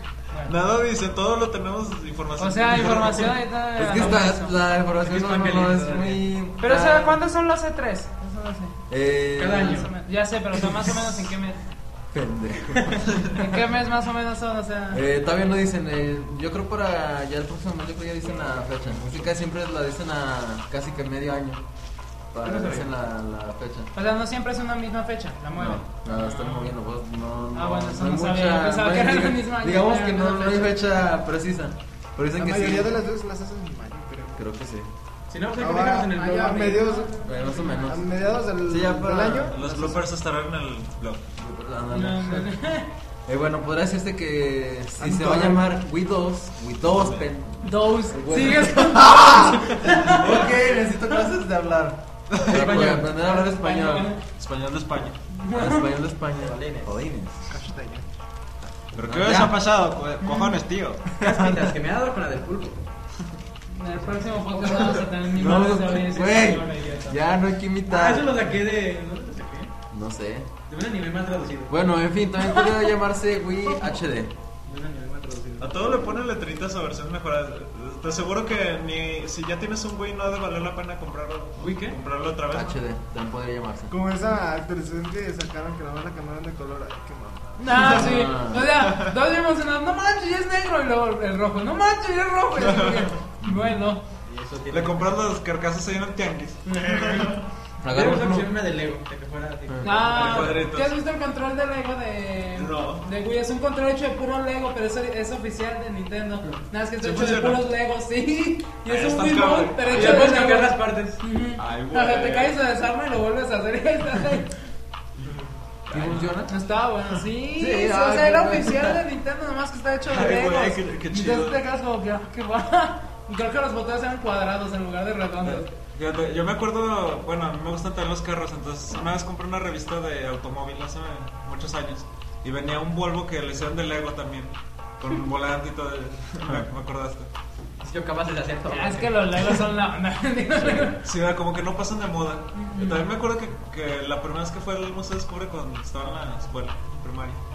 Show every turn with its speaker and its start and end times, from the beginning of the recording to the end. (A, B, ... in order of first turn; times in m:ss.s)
0:00.3-0:00.5 A
0:00.5-0:03.4 B
0:02.4-0:04.6 A
0:03.8-0:07.2 C
0:04.9-0:06.3 D
0:06.6-0:08.7 A
0:08.9-0:09.9 C
0:09.4-0:09.9 D
0:09.7-0:11.6 A
0:12.1-0:13.5 C
0:13.2-0:15.0 A
0:14.9-0:21.6 C
0:22.3-0:23.9 C
0:22.4-0:22.9 D
0:23.9-0:26.8 A
0:25.6-0:32.9 C
0:27.5-0:30.8 A
0:32.3-0:34.4 E
0:34.4-0:34.9 C
0:35.3-0:36.8 D
0:35.6-0:40.0 E
0:36.1-0:38.0 A
0:37.2-0:39.6 C
0:39.5-0:41.3 B
0:41.4-0:42.6 C
0:41.9-0:42.9 A
0:43.2-0:54.1 C
0:45.1-0:45.6 E
0:46.8-0:47.3 B
0:47.6-0:50.5 A
0:52.3-0:52.9 B
0:52.5-0:53.1 D
0:52.7-0:54.2 A
0:54.4-0:55.2 B
0:55.3-0:55.9 A
0:55.5-0:57.4 C
0:56.3-0:56.9 D
0:57.5-0:58.0 E
0:58.9-1:01.1 B
0:58.9-0:59.6 C
1:00.2-1:00.5 A
1:01.2-1:02.8 D
1:01.2-1:01.7 C
1:03.7-1:07.2 A
1:05.3-1:08.4 C
1:07.8-1:09.7 D
1:09.9-1:10.5 C
1:10.7-1:11.7 D
1:11.7-1:14.3 C
1:14.6-1:15.8 D
1:15.6-1:22.8 B
1:21.6-1:22.0 D
1:22.5-1:23.9 C
1:23.9-1:27.5 E
1:27.6-1:34.0 A
1:27.7-1:28.7 C
1:28.9-1:29.1 B
1:32.6-1:33.1 B
1:33.4-1:33.7 C
1:34.2-1:35.1 D
1:34.7-1:37.4 B
1:36.7-1:40.6 D
1:37.8-1:38.5 C
1:39.8-1:54.6 A
1:40.1-1:41.0 B
1:42.5-1:43.0 B
1:47.0-1:47.6 B
1:48.8-1:50.3 B
1:49.9-1:51.2 D
1:51.6-1:52.6 B
1:55.8-1:56.3 B
1:55.9-1:56.5 C
1:56.5-2:05.7 A
1:57.6-1:59.0 C
2:00.0-2:01.6 B
2:05.4-2:17.3 B
2:17.8-2:19.6 D
2:18.7-2:21.0 A
2:20.6-2:20.9 C
2:21.0-2:27.4 B
2:22.5-2:23.1 A